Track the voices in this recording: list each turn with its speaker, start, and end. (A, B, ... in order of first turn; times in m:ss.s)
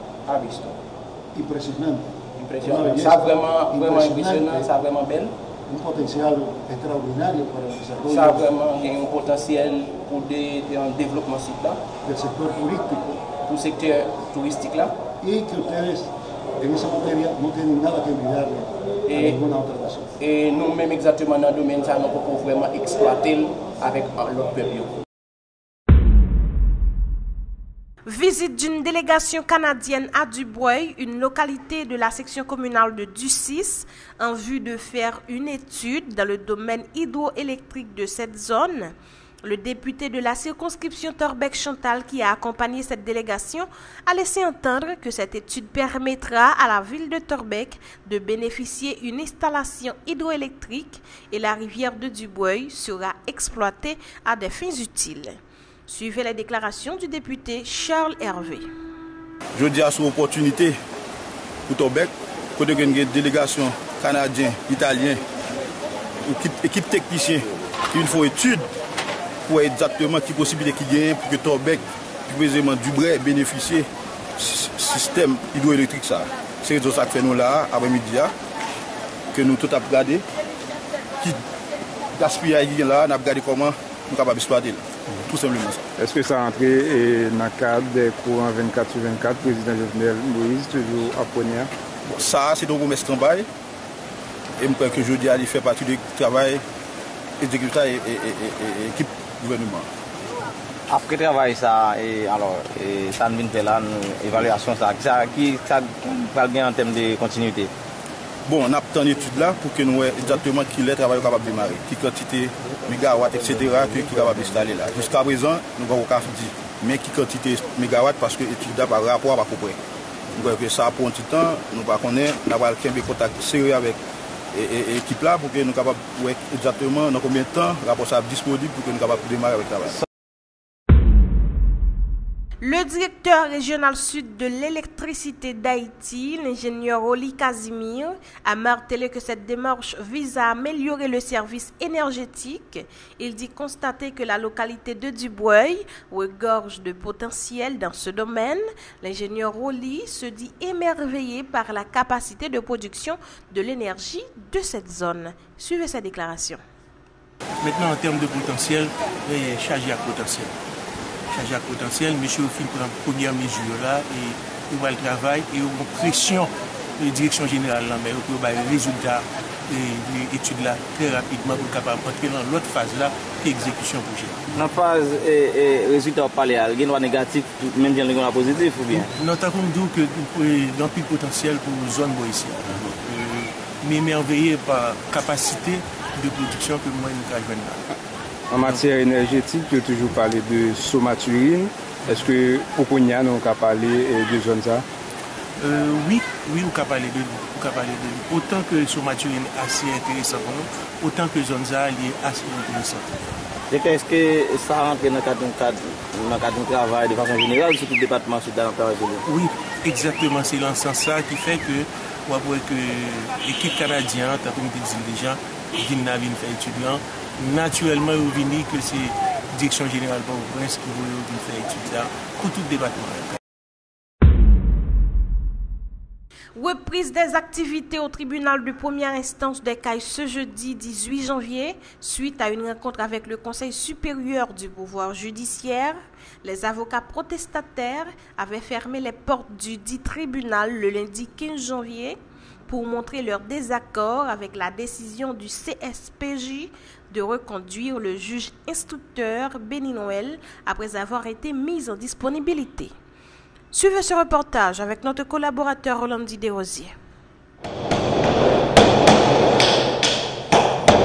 0:00.3-0:00.8 A
0:01.4-0:04.7 B
0:02.4-0:05.3 A
0:05.7-0:08.5 B
0:08.0-0:11.8 A
0:12.0-0:13.3 B
0:13.4-0:15.0 A
0:15.2-0:20.1 B
0:19.1-0:19.4 A
0:20.2-0:25.0 A
0:28.1-0:38.9 C
0:39.4-0:55.4 C
0:55.9-0:58.7 C
0:59.6-1:00.8 D
1:01.7-1:05.2 D
1:06.2-1:08.6 D
1:09.5-1:13.9 D
1:14.4-1:18.3 D
1:19.3-1:20.2 D
1:22.2-1:25.8 D
1:26.0-1:31.7 E
1:32.1-1:33.5 D
1:34.6-1:36.6 D
1:37.4-1:39.9 D
1:40.9-1:47.7 F
1:48.5-1:59.8 D
2:00.4-2:04.0 D
2:04.5-2:10.0 D
2:12.6-2:36.6 C
2:37.6-2:40.5 G
2:41.3-2:54.4 G
2:54.6-2:59.1 F
2:59.2-3:07.8 G
3:08.5-3:14.8 E
3:15.6-3:23.2 G
3:23.7-3:29.2 F
3:29.3-3:43.4 G
3:46.6-4:02.2 C
4:02.7-4:12.9 C
4:13.7-4:16.9 C